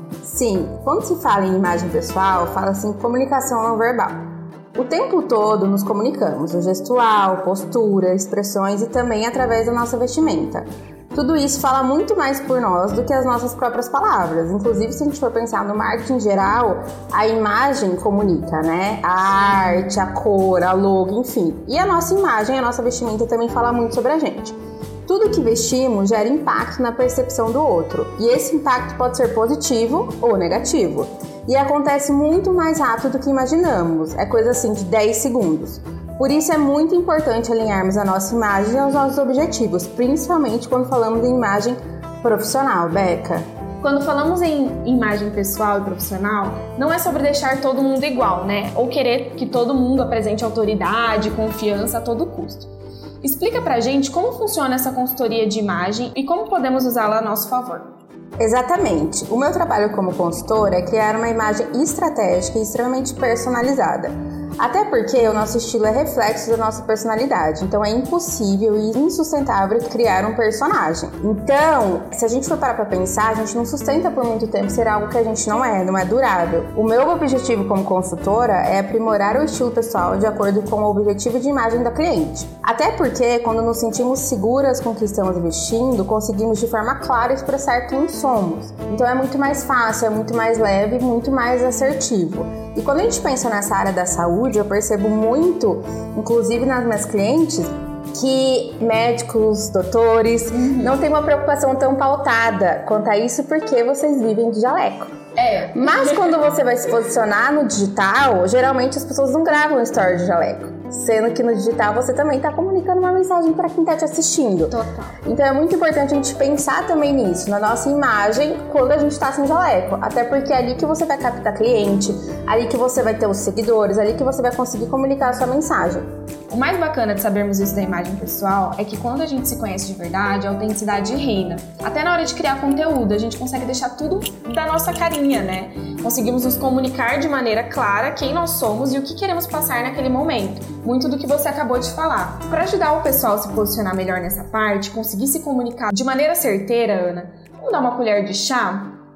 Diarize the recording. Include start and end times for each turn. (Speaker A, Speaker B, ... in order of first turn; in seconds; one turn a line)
Speaker A: 0.2-4.2
Speaker A: 4.7-43.4
Speaker B: 43.8-52.7
Speaker B: 53.2-57.9
Speaker A: 58.4-105.1
Speaker B: 100.5-101.0
Speaker B: 105.3-106.3
Speaker A: 105.7-126.0
Speaker B: 114.7-115.2
Speaker B: 126.5-148.9